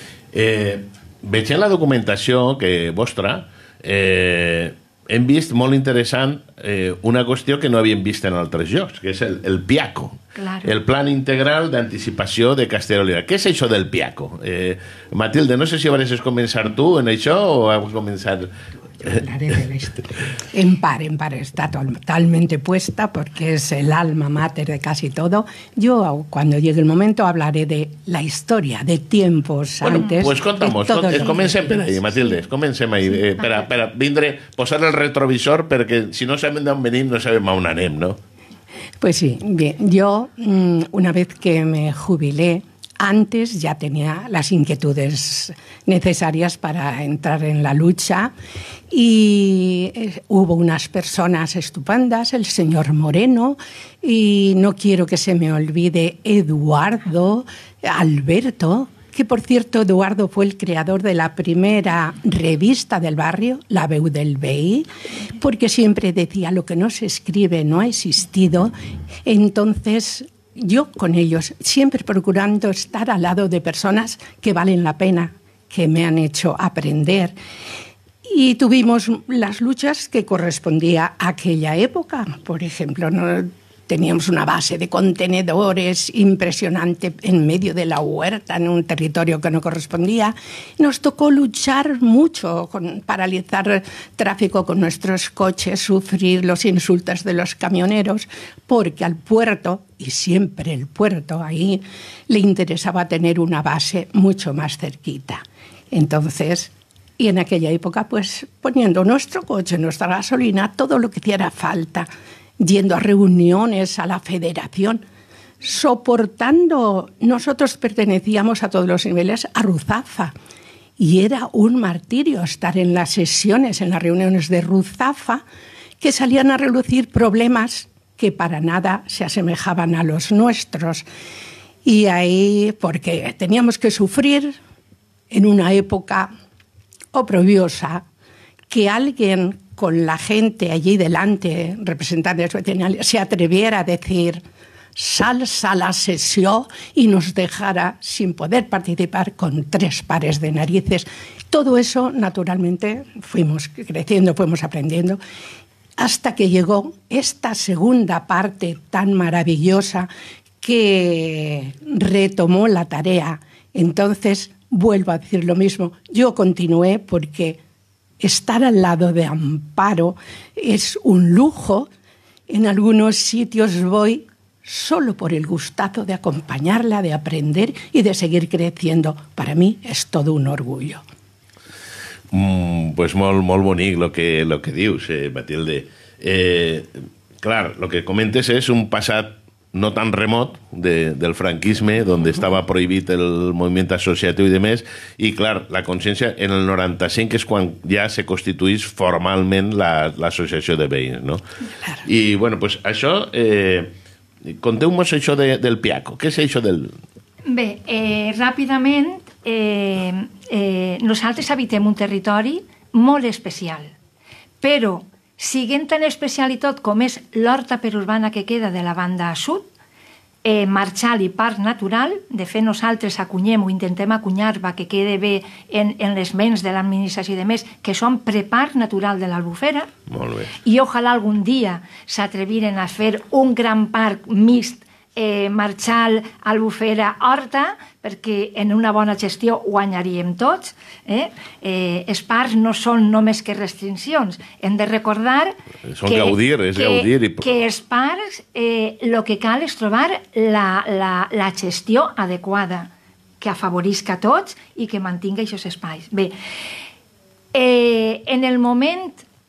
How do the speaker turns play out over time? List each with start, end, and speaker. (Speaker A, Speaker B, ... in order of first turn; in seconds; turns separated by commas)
Speaker A: 0.3-18.5, Speaker B: 10.3-10.7, Speaker C: 19.0-32.1, Speaker B: 29.9-30.2, Speaker A: 30.1-38.2, Speaker B: 33.3-33.6, Speaker C: 39.0-48.3, Speaker C: 48.9-68.7, Speaker C: 69.2-77.3, Speaker C: 78.2-112.1, Speaker C: 112.6-115.0, Speaker C: 115.6-120.3, Speaker C: 121.0-125.4, Speaker C: 126.0-131.1, Speaker C: 131.8-134.6, Speaker C: 135.3-136.3, Speaker C: 137.1-138.0, Speaker C: 138.7-144.4, Speaker C: 144.9-155.2, Speaker C: 156.0-160.1, Speaker C: 160.6-167.6, Speaker C: 168.2-171.9, Speaker C: 172.5-181.0, Speaker A: 182.3-201.4, Speaker A: 202.0-203.9, Speaker A: 204.4-206.9, Speaker B: 207.4-213.9, Speaker B: 214.6-219.7, Speaker B: 220.4-229.9, Speaker A: 230.1-230.5, Speaker B: 230.6-256.3, Speaker A: 245.9-247.5, Speaker B: 257.5-259.2